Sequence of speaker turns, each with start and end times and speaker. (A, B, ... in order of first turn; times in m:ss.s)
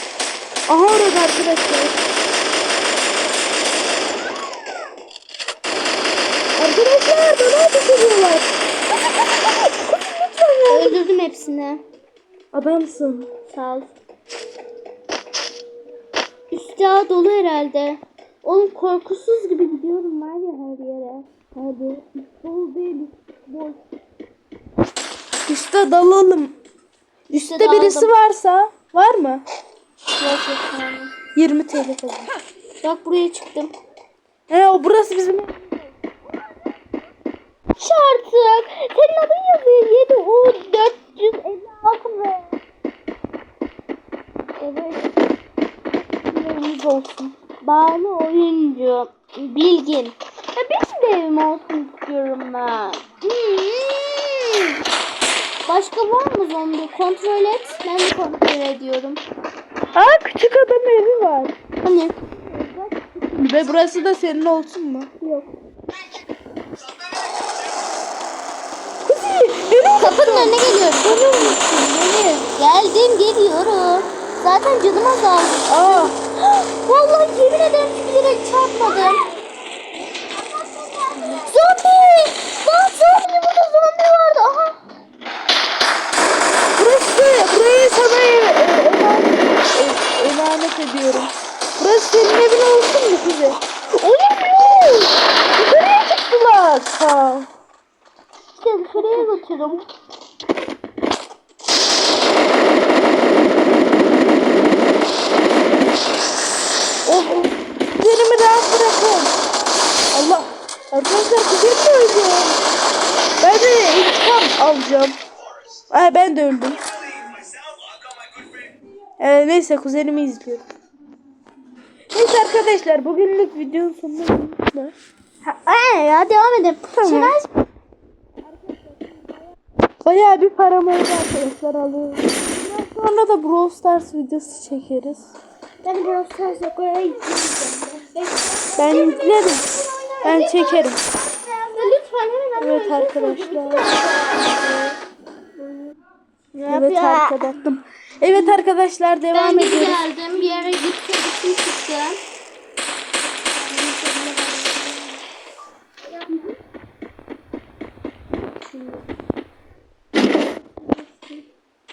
0:00.7-0:02.0 A
0:06.6-0:08.5 A
0:09.7-0:11.0 A
0:10.7-0:11.8 B
0:12.5-0:13.3 A
0:13.5-0:13.9 B
0:16.5-0:23.8 B
0:25.5-0:26.5 A
0:27.3-0:29.4 A
0:27.3-0:28.1 B
0:30.2-0:31.1 B
0:31.3-0:32.4 A
0:32.8-0:33.7 B
0:34.5-0:35.9 A
0:37.8-0:42.6 B
0:44.6-0:45.0 B
0:46.3-0:47.3 A
0:47.4-0:54.7 B
0:55.6-0:59.2 B
0:59.9-1:01.5 A
1:01.8-1:03.4 B
1:03.3-1:05.3 A
1:09.0-1:12.5 A
1:10.0-1:11.6 B
1:12.4-1:19.2 B
1:15.7-1:16.1 A
1:21.1-1:21.4 A
1:21.3-1:24.8 B
1:26.7-1:33.6 A
1:34.0-1:34.4 B
1:34.2-1:37.5 A
1:38.6-1:39.8 B
1:39.0-1:39.3 A
1:47.0-1:49.3 A
1:50.1-1:52.6 A
1:53.4-1:55.2 A
1:55.9-1:56.9 A
1:59.2-2:00.6 A
2:02.1-2:04.9 A
2:05.4-2:07.5 B
2:07.0-2:07.3 A
2:10.0-2:15.3 A
2:15.8-2:24.9 B
2:18.8-2:19.7 A
2:20.2-2:21.0 A
2:22.6-2:23.9 A
2:25.6-2:25.9 B
2:26.5-2:27.5 B
2:26.7-2:30.0 A
2:29.3-2:32.2 B
2:33.6-2:35.1 B
2:36.2-2:36.5 B
2:40.8-2:41.4 B